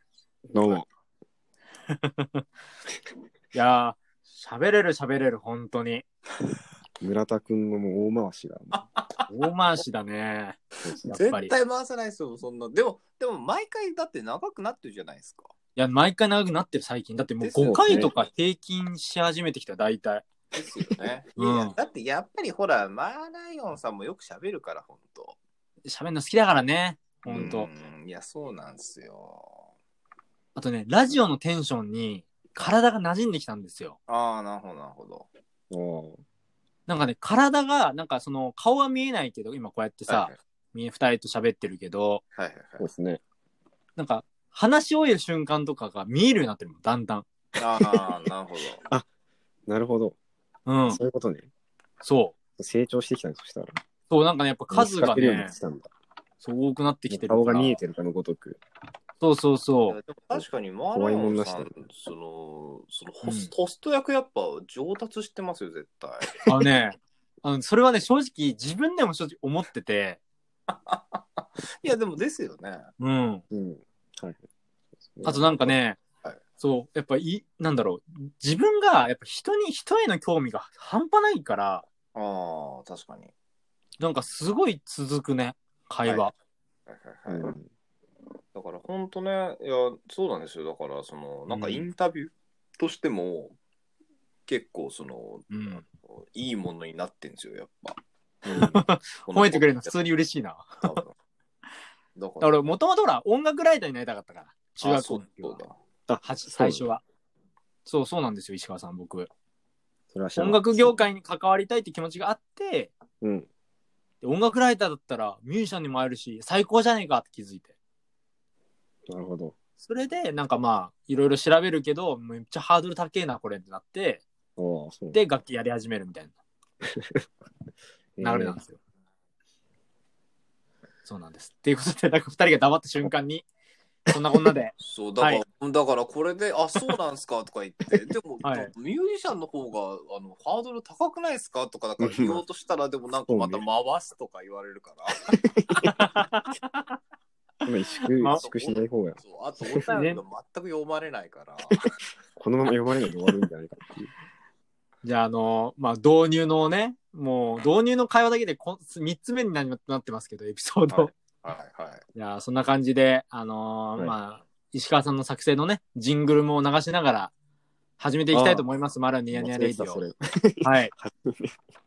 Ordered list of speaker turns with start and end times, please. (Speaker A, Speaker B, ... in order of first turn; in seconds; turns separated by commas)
Speaker A: 0.5-0.8, Speaker B: 1.9-2.4, Speaker B: 3.5-6.0, Speaker A: 7.0-8.8, Speaker C: 8.8-9.3, Speaker B: 9.3-11.5, Speaker C: 11.1-15.5, Speaker B: 15.8-20.2, Speaker C: 17.4-18.1, Speaker A: 17.6-18.1, Speaker C: 20.5-25.4, Speaker B: 21.4-21.8, Speaker B: 25.9-27.7, Speaker C: 27.3-29.6, Speaker B: 30.5-34.0, Speaker C: 34.1-35.3, Speaker A: 35.7-36.2, Speaker B: 36.9-42.2, Speaker C: 40.1-40.4, Speaker C: 42.3-42.8, Speaker A: 42.8-43.2, Speaker B: 44.0-47.2, Speaker C: 47.6-48.8, Speaker A: 49.7-50.2, Speaker B: 50.6-51.0, Speaker A: 50.9-51.5, Speaker B: 52.0-52.3, Speaker A: 52.6-53.8, Speaker B: 54.1-55.5, Speaker A: 54.7-55.9, Speaker B: 56.4-57.8, Speaker A: 57.1-58.6, Speaker B: 59.2-60.0, Speaker C: 59.9-66.5, Speaker A: 60.9-61.7, Speaker B: 63.2-63.5, Speaker B: 66.5-70.2, Speaker C: 70.7-72.9, Speaker B: 73.0-73.4, Speaker A: 73.5-74.4, Speaker A: 75.0-75.7, Speaker B: 75.2-76.0, Speaker B: 76.6-81.8, Speaker C: 82.1-83.3, Speaker B: 84.0-86.3, Speaker C: 86.9-87.5, Speaker A: 87.3-87.7, Speaker C: 88.5-93.6, Speaker B: 91.5-91.8, Speaker C: 94.5-98.0, Speaker B: 95.5-95.8, Speaker A: 98.4-98.8, Speaker B: 98.5-101.0, Speaker C: 99.3-100.1, Speaker C: 100.8-101.1, Speaker C: 102.2-102.7, Speaker B: 102.4-105.6, Speaker C: 104.8-105.7, Speaker A: 106.1-106.9, Speaker B: 106.2-107.0, Speaker B: 107.8-109.3, Speaker A: 110.1-111.0, Speaker B: 110.3-112.9, Speaker A: 113.2-113.5, Speaker B: 114.2-117.7, Speaker A: 119.1-119.5, Speaker B: 119.8-124.2, Speaker A: 124.6-125.2, Speaker B: 125.1-126.3, Speaker A: 126.8-127.2, Speaker A: 128.2-128.6, Speaker B: 128.2-128.8, Speaker B: 131.1-133.4, Speaker B: 134.1-135.4, Speaker C: 134.8-145.4, Speaker B: 138.4-138.7, Speaker A: 142.0-142.4, Speaker A: 143.3-143.6, Speaker A: 145.3-146.0, Speaker B: 145.8-147.0, Speaker A: 147.6-149.9, Speaker B: 148.1-148.4, Speaker C: 148.3-151.9, Speaker B: 149.9-150.2, Speaker A: 152.4-154.1, Speaker B: 155.0-161.1, Speaker C: 160.9-162.0, Speaker B: 162.1-167.3, Speaker B: 168.0-170.0, Speaker A: 168.3-168.6, Speaker A: 169.3-171.6, Speaker B: 170.6-170.9